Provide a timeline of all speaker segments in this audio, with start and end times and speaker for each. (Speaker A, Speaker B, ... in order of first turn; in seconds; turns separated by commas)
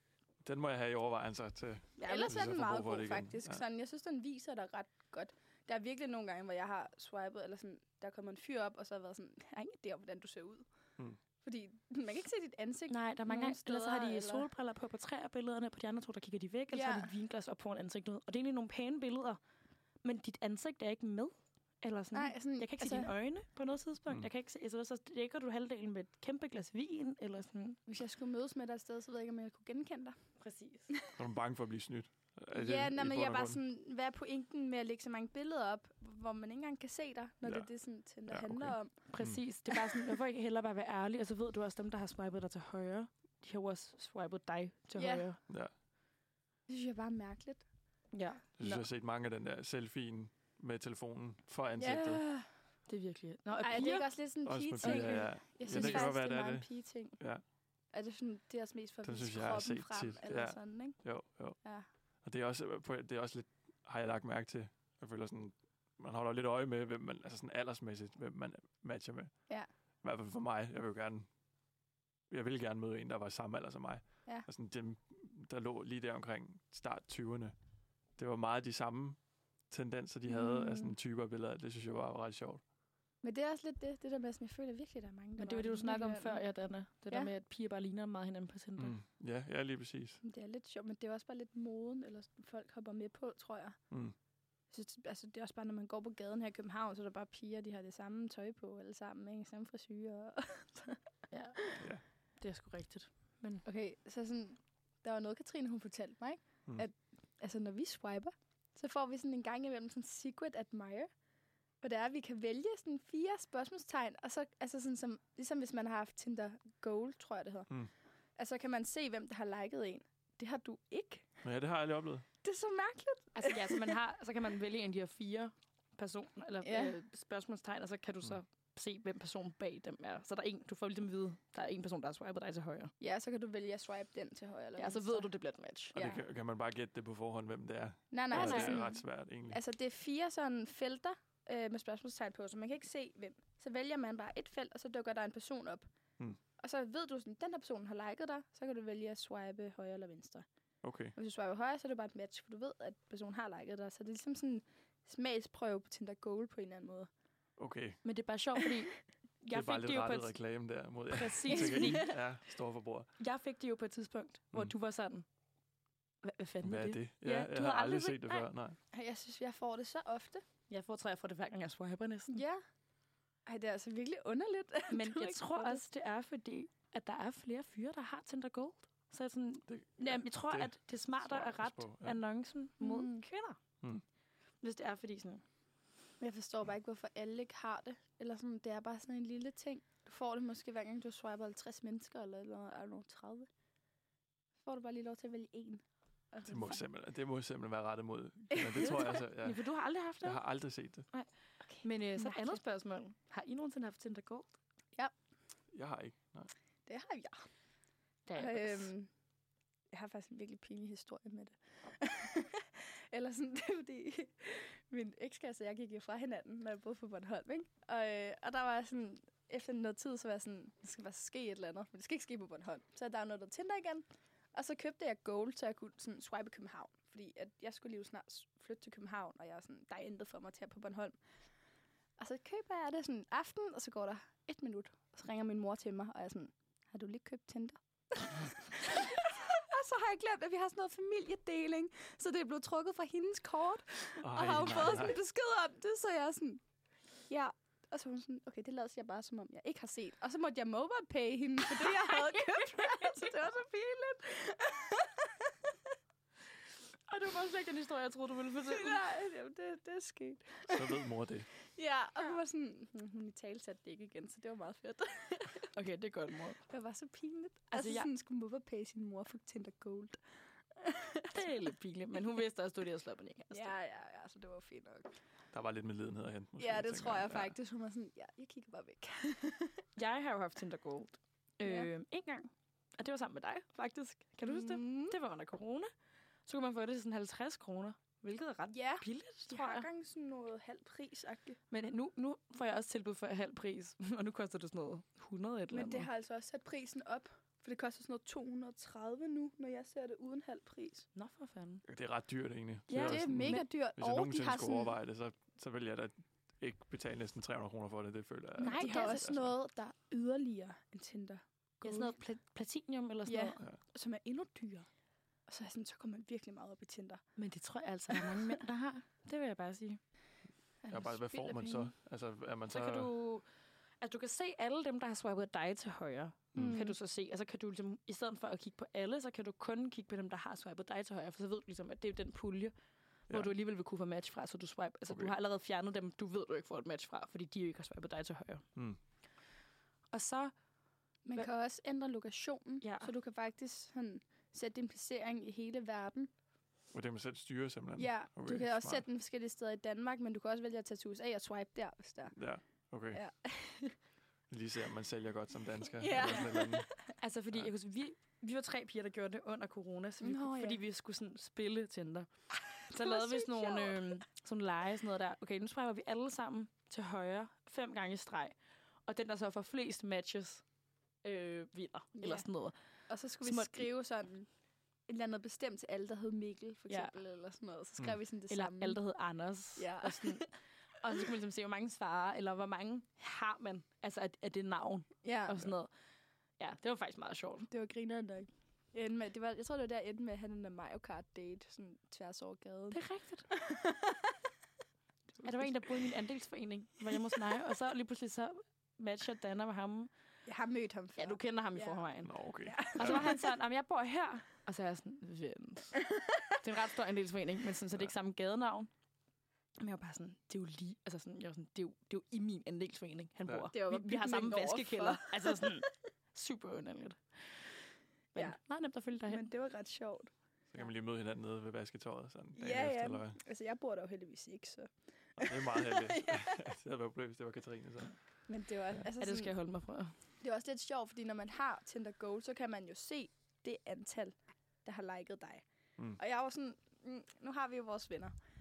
Speaker A: 0.4-3.6, Speaker B: 2.0-10.7, Speaker B: 11.4-14.5, Speaker C: 12.9-19.4, Speaker B: 16.7-17.1, Speaker C: 20.0-27.8, Speaker B: 22.1-23.1, Speaker B: 27.9-30.1, Speaker C: 30.4-30.9, Speaker B: 30.9-31.2, Speaker A: 31.1-33.6, Speaker B: 32.5-38.9, Speaker A: 38.3-39.4, Speaker C: 39.1-45.4, Speaker B: 39.7-40.1, Speaker B: 45.0-45.3, Speaker B: 46.7-47.6, Speaker C: 48.1-48.8, Speaker A: 48.6-52.2, Speaker B: 51.8-52.5, Speaker C: 52.9-54.1, Speaker B: 53.6-57.2, Speaker A: 54.4-56.7, Speaker C: 54.8-56.1, Speaker B: 57.9-61.0, Speaker A: 59.0-61.5, Speaker A: 62.2-69.3, Speaker A: 70.0-71.3, Speaker A: 72.3-77.5, Speaker A: 78.2-79.2, Speaker A: 79.7-82.6, Speaker B: 80.3-80.9, Speaker B: 83.2-86.4, Speaker C: 85.4-89.0, Speaker A: 88.8-90.2, Speaker B: 90.2-93.8, Speaker B: 94.7-101.0, Speaker C: 101.3-101.6, Speaker B: 101.6-101.8, Speaker C: 102.4-103.6, Speaker B: 103.6-111.1, Speaker B: 111.8-117.7, Speaker B: 118.4-121.4, Speaker A: 121.4-122.2, Speaker B: 122.4-124.0, Speaker C: 123.3-132.9, Speaker B: 126.6-127.0, Speaker B: 133.0-135.3, Speaker C: 134.8-135.9, Speaker B: 135.9-136.2, Speaker A: 135.9-139.6, Speaker B: 138.1-145.9, Speaker C: 138.3-138.8, Speaker B: 146.6-150.4, Speaker A: 150.8-151.1, Speaker B: 151.2-157.1, Speaker A: 157.6-158.0, Speaker C: 158.0-160.3, Speaker A: 159.5-163.1, Speaker C: 161.1-162.1, Speaker B: 161.5-162.2, Speaker C: 163.2-165.2, Speaker C: 166.2-168.5, Speaker A: 166.6-168.8, Speaker B: 168.9-170.4, Speaker C: 170.7-172.4, Speaker B: 172.3-172.6, Speaker B: 173.4-175.8, Speaker C: 174.9-183.6, Speaker A: 179.7-182.2, Speaker B: 182.8-183.2, Speaker C: 184.6-185.4, Speaker B: 186.2-193.5, Speaker B: 194.6-196.8, Speaker A: 196.4-199.6, Speaker B: 198.5-199.1, Speaker C: 199.1-200.4, Speaker A: 200.2-201.1, Speaker B: 201.7-202.6, Speaker C: 201.8-204.6, Speaker A: 205.7-206.5, Speaker B: 206.9-207.4, Speaker C: 208.3-208.9, Speaker B: 208.3-209.1, Speaker B: 209.9-231.2, Speaker B: 232.2-246.6, Speaker A: 244.2-245.2, Speaker B: 247.3-255.7, Speaker C: 251.7-253.2, Speaker C: 257.1-259.0, Speaker B: 258.6-261.0, Speaker A: 260.7-261.5, Speaker B: 261.8-265.7, Speaker C: 265.7-266.6, Speaker B: 266.7-270.2, Speaker C: 267.7-268.1, Speaker B: 270.8-271.4, Speaker C: 271.3-273.7, Speaker B: 273.5-275.1, Speaker A: 275.5-277.5, Speaker B: 276.6-279.8, Speaker C: 279.9-285.9, Speaker B: 281.6-281.9, Speaker B: 284.4-285.2, Speaker C: 286.4-289.9, Speaker B: 288.7-291.6, Speaker C: 291.7-296.1, Speaker B: 295.7-301.1, Speaker C: 301.1-301.8, Speaker A: 301.9-309.5, Speaker C: 302.9-303.6, Speaker B: 302.9-304.9, Speaker C: 308.6-309.4, Speaker B: 308.7-312.2, Speaker C: 311.8-313.6, Speaker B: 313.2-314.9, Speaker B: 315.5-317.2, Speaker C: 317.4-320.0, Speaker B: 318.1-318.6, Speaker B: 320.9-321.9, Speaker A: 320.9-323.1, Speaker C: 322.7-323.4, Speaker C: 324.0-332.7, Speaker A: 326.5-326.8, Speaker B: 326.6-326.9, Speaker C: 333.3-338.6, Speaker C: 340.1-340.5, Speaker B: 341.2-346.3, Speaker C: 342.8-343.1, Speaker A: 346.9-349.0, Speaker B: 348.0-352.3, Speaker A: 352.3-353.2, Speaker B: 353.1-353.9, Speaker A: 354.5-356.9, Speaker B: 356.0-357.1, Speaker C: 357.2-368.5, Speaker B: 360.2-360.8, Speaker B: 362.7-364.2, Speaker C: 369.1-370.6, Speaker C: 371.2-372.8, Speaker B: 372.2-372.4, Speaker B: 373.1-374.5, Speaker C: 373.4-373.9, Speaker B: 375.1-379.0, Speaker C: 376.9-377.1, Speaker C: 378.5-385.9, Speaker B: 379.8-380.5, Speaker B: 385.2-385.6, Speaker C: 386.6-387.7, Speaker B: 387.7-394.4, Speaker C: 392.9-393.5, Speaker B: 395.3-396.0, Speaker C: 395.4-400.1, Speaker B: 400.4-402.1, Speaker C: 401.1-402.3, Speaker A: 402.2-403.3, Speaker B: 402.6-403.5, Speaker C: 402.9-406.0, Speaker B: 406.2-406.5, Speaker C: 406.6-408.9, Speaker C: 409.8-417.2, Speaker B: 413.7-415.8, Speaker C: 418.3-419.4, Speaker B: 419.3-420.3, Speaker A: 420.7-423.4, Speaker B: 422.6-426.7, Speaker A: 425.4-428.1, Speaker B: 428.5-429.5, Speaker C: 429.2-430.1, Speaker B: 430.4-435.6, Speaker B: 436.2-438.3